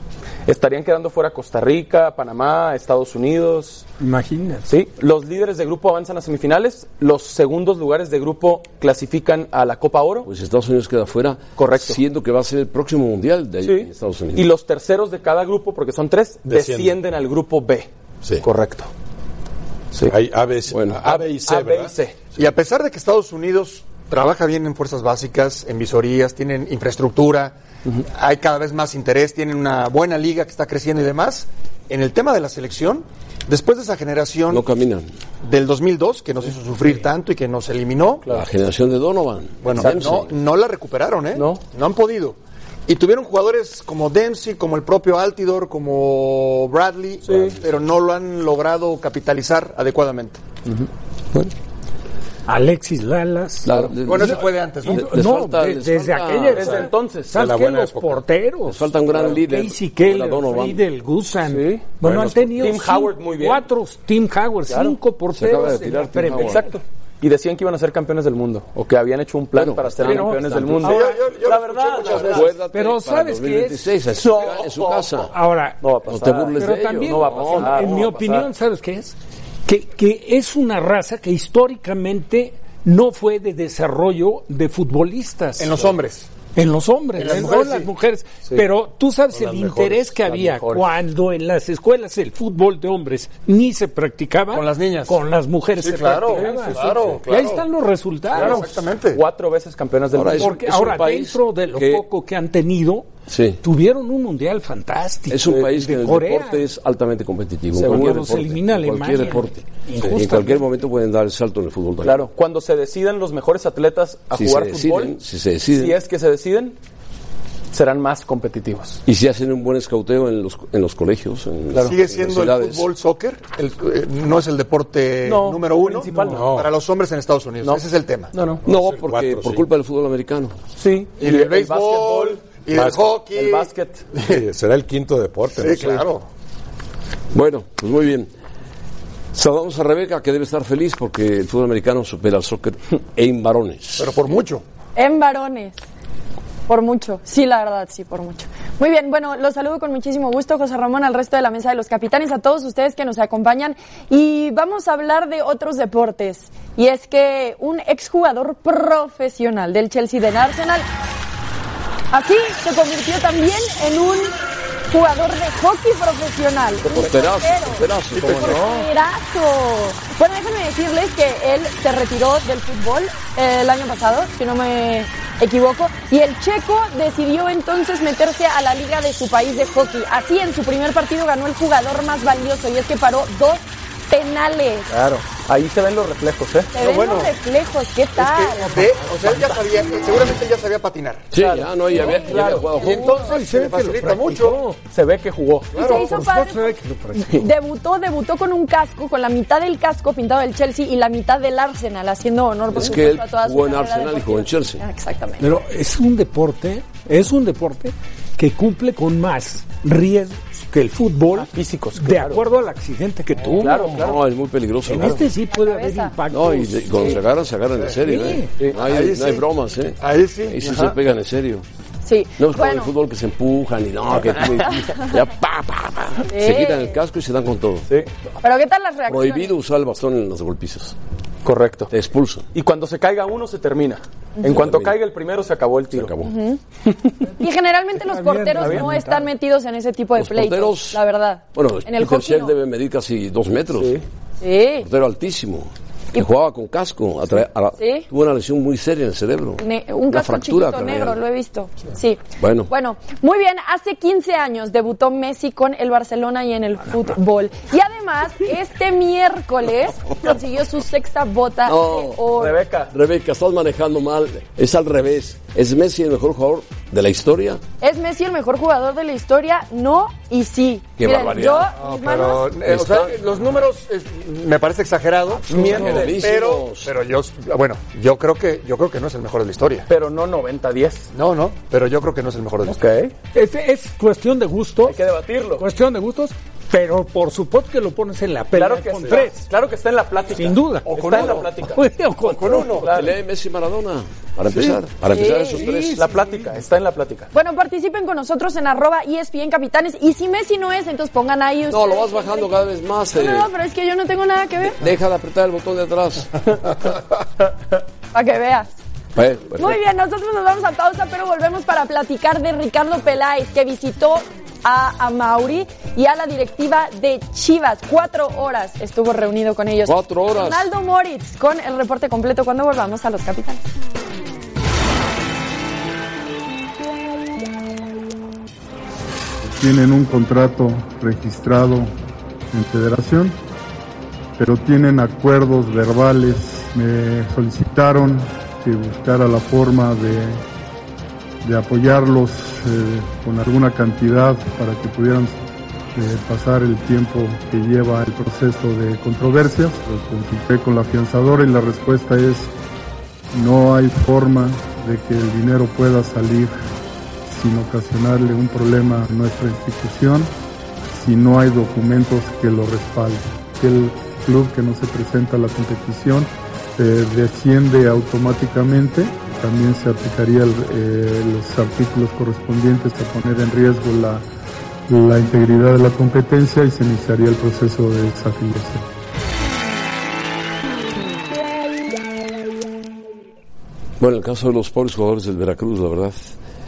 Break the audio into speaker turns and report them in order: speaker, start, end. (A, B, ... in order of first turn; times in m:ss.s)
0:00.4-0:03.9 A
0:04.0-0:04.7 B
0:04.7-0:10.3 A
0:10.2-0:14.5 C
0:11.6-0:12.0 A
0:13.6-0:17.9 A
0:16.4-0:17.0 D
0:18.4-0:18.9 A
0:20.0-0:21.9 D
0:20.7-0:21.0 C
0:21.0-0:22.2 A
0:22.4-0:27.5 E
0:28.0-0:34.6 E
0:34.5-0:35.1 C
0:35.4-0:38.2 E
0:38.3-0:40.3 C
0:39.6-0:50.4 E
0:39.8-0:40.2 A
0:41.3-0:41.6 A
0:47.2-0:47.6 A
0:52.5-0:54.2 B
0:53.6-0:56.9 C
0:54.0-0:55.1 E
0:54.8-1:06.8 B
0:56.5-0:57.4 A
0:57.3-0:58.2 D
0:58.6-1:00.8 C
0:59.1-0:59.4 A
1:01.4-1:01.9 A
1:02.0-1:02.6 D
1:02.1-1:02.4 C
1:02.6-1:03.6 A
1:04.7-1:05.0 A
1:05.3-1:06.6 C
1:06.3-1:12.5 A
1:09.5-1:11.0 C
1:10.0-1:10.4 B
1:10.8-1:12.5 E
1:12.0-1:15.3 C
1:12.7-1:13.9 B
1:14.1-1:15.3 A
1:15.3-1:15.8 B
1:15.8-1:18.5 A
1:16.0-1:17.8 C
1:16.6-1:19.1 B
1:19.6-1:25.7 B
1:25.6-1:26.3 E
1:26.5-1:38.6 B
1:27.2-1:27.9 E
1:27.3-1:27.6 A
1:29.3-1:30.2 D
1:30.2-1:30.9 A
1:34.5-1:35.1 E
1:35.8-1:37.6 E
1:36.3-1:36.9 A
1:36.8-1:37.2 D
1:38.3-1:39.2 E
1:38.3-1:40.6 A
1:40.1-1:42.0 C
1:40.3-1:43.1 B
1:43.3-1:43.6 C
1:43.6-1:46.6 B
1:45.3-1:52.2 C
1:45.4-1:45.7 A
1:47.7-1:48.4 A
1:47.8-1:50.6 B
1:52.0-1:55.2 A
1:54.3-1:56.0 C
1:55.7-1:56.8 A
1:57.7-1:59.0 A
1:59.0-2:02.9 C
2:01.8-2:08.3 E
2:05.2-2:06.5 A
2:06.3-2:06.7 D
2:07.6-2:08.6 A
2:08.6-2:09.6 D
2:08.6-2:10.5 C
2:10.8-2:12.6 A
2:11.2-2:14.4 E
2:12.7-2:13.1 D
2:13.2-2:14.0 A
2:14.2-2:16.0 D
2:15.6-2:16.2 E
2:17.3-2:18.3 C
2:19.3-2:24.2 C
2:24.0-2:24.6 E
2:25.0-2:25.8 F
2:26.7-2:40.8 F
2:42.1-2:44.3 F
2:44.9-3:04.9 F
2:46.8-2:47.5 A
2:46.9-2:48.6 C
2:48.1-2:48.8 E
2:48.4-2:48.8 A
3:04.9-3:06.7 A
3:06.7-3:08.8 F
3:06.8-3:07.3 E
3:08.2-3:11.3 E
3:08.8-3:09.5 B
3:11.3-3:13.1 C
3:11.3-3:12.7 A
3:11.9-3:13.3 F
3:12.8-3:14.6 E
3:13.0-3:14.8 B
3:14.9-3:16.0 A
3:15.7-3:16.1 E
3:15.8-3:16.7 F
3:15.8-3:17.4 B
3:17.3-3:25.4 F
3:22.7-3:24.8 C
3:25.4-3:34.0 B
3:31.3-3:32.4 A
3:33.6-3:34.2 A
3:33.9-3:35.2 C
3:34.9-3:37.2 B
3:35.5-3:36.1 F
3:36.3-3:41.6 C
3:38.0-3:38.5 B
3:38.7-3:39.4 E
3:40.0-3:41.0 E
3:42.0-3:42.9 F
3:42.4-3:47.9 C
3:46.3-3:47.0 F
3:48.4-3:49.5 F
3:49.1-3:51.0 C
3:51.4-3:51.9 A
3:51.9-3:52.4 C
3:52.5-3:56.1 A
3:54.4-3:55.0 C
3:55.9-3:56.3 C
3:56.2-3:56.6 F
3:57.4-4:02.5 F
3:58.0-3:59.3 B
3:58.6-3:58.9 A
4:00.2-4:01.0 C
4:01.5-4:04.0 C
4:03.8-4:04.0 A
4:04.4-4:04.8 F
4:04.8-4:11.2 C
4:07.8-4:08.0 F
4:09.6-4:22.6 F
4:12.4-4:12.7 C
4:21.6-4:22.3 C
4:22.3-4:22.9 A
4:22.9-4:27.6 C
4:27.8-4:32.5 F
4:31.0-4:31.7 C
4:31.8-4:39.9 E
4:32.6-4:33.2 C
4:35.5-4:36.2 A
4:35.5-4:36.9 C
4:39.9-4:41.1 A
4:41.1-4:42.8 E
4:42.6-4:43.1 A
4:43.3-4:45.0 B
4:44.8-4:45.6 A
4:45.6-4:49.4 B
4:48.5-4:51.8 A
4:50.3-4:52.7 B
4:50.9-4:51.5 E
4:52.2-4:52.9 E
4:52.4-4:53.2 A
4:52.9-4:56.0 C
4:55.1-4:55.6 F
4:55.3-4:57.3 A
4:57.3-5:02.5 F
5:01.7-5:03.5 C
5:03.1-5:04.8 F
5:04.8-5:06.5 C
5:08.1-5:08.7 F
5:09.2-5:09.8 C
5:09.6-5:23.6 F
5:19.8-5:20.7 C
5:29.6-5:31.9 G
5:32.5-5:33.4 G
5:34.4-5:40.4 G
5:41.4-5:45.4 G
5:45.9-5:52.5 G
5:53.3-5:56.5 G
5:57.3-6:00.3 G
6:00.9-6:14.2 G
6:14.9-6:18.8 G
6:24.0-6:26.3 C